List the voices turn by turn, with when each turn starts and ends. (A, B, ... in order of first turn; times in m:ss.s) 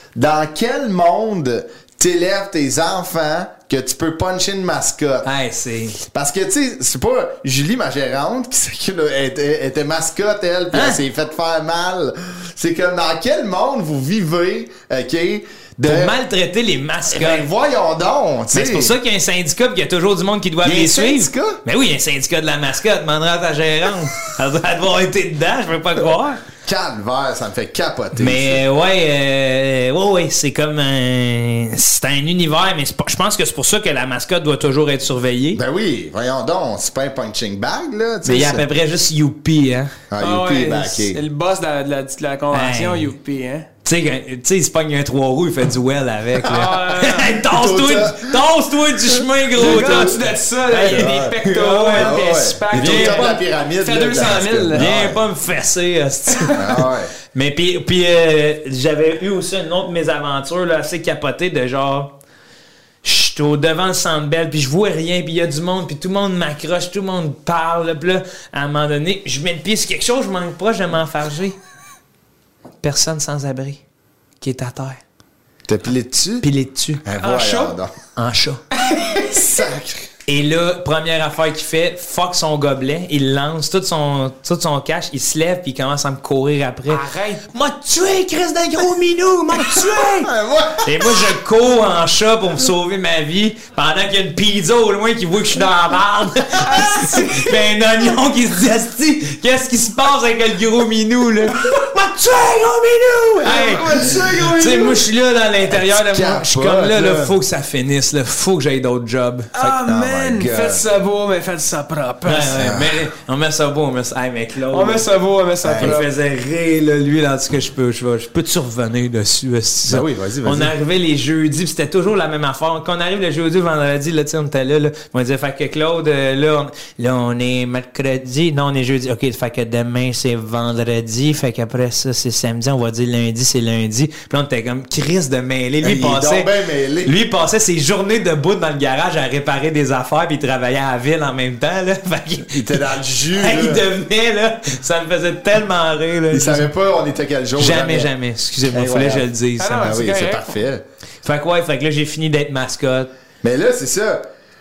0:00.2-0:05.3 A
0:05.2-0:06.0 B
0:06.0-0:16.2 A
0:10.7-0:11.0 B
0:15.8-0:17.5 B
0:17.1-0:18.9 A
0:18.5-0:26.4 B
0:20.6-0:21.6 A
0:26.7-0:28.6 A
0:28.2-0:35.6 B
0:35.5-0:38.6 A
0:38.2-0:40.0 B
0:40.1-0:41.2 A
0:40.2-0:43.7 C
0:42.5-0:43.1 B
0:43.8-0:52.2 B
0:46.4-0:47.4 C
0:47.4-0:48.4 A
0:49.5-0:50.2 A
0:49.6-0:54.9 C
0:50.8-0:51.4 A
0:52.0-0:55.2 A
0:52.7-0:53.3 B
0:54.7-1:02.1 B
0:56.5-0:57.1 A
1:03.0-1:11.6 B
1:12.8-1:13.8 B
1:14.4-1:15.0 B
1:15.7-1:16.5 A
1:16.4-1:17.0 B
1:17.0-1:18.0 A
1:17.2-1:17.8 C
1:18.2-1:18.6 B
1:18.7-1:19.5 C
1:19.2-1:20.1 A
1:20.3-1:49.8 B
1:26.9-1:27.4 C
1:29.6-1:31.3 A
1:36.6-1:37.6 C
1:43.4-1:45.1 C
1:45.7-1:47.3 A
1:49.5-1:52.6 C
1:49.9-1:50.8 A
1:52.2-1:55.1 B
1:52.6-1:53.0 A
1:54.7-1:56.1 C
1:55.6-1:56.0 A
1:55.8-2:16.5 B
1:59.9-2:00.7 A
2:15.8-2:17.2 A
2:17.0-2:26.7 B
2:22.5-2:23.8 A
2:26.3-2:28.1 A
2:27.6-2:29.9 B
2:28.7-2:29.3 A
2:29.6-2:30.6 C
2:29.8-2:30.8 A
2:31.2-2:33.1 B
2:33.4-2:34.2 A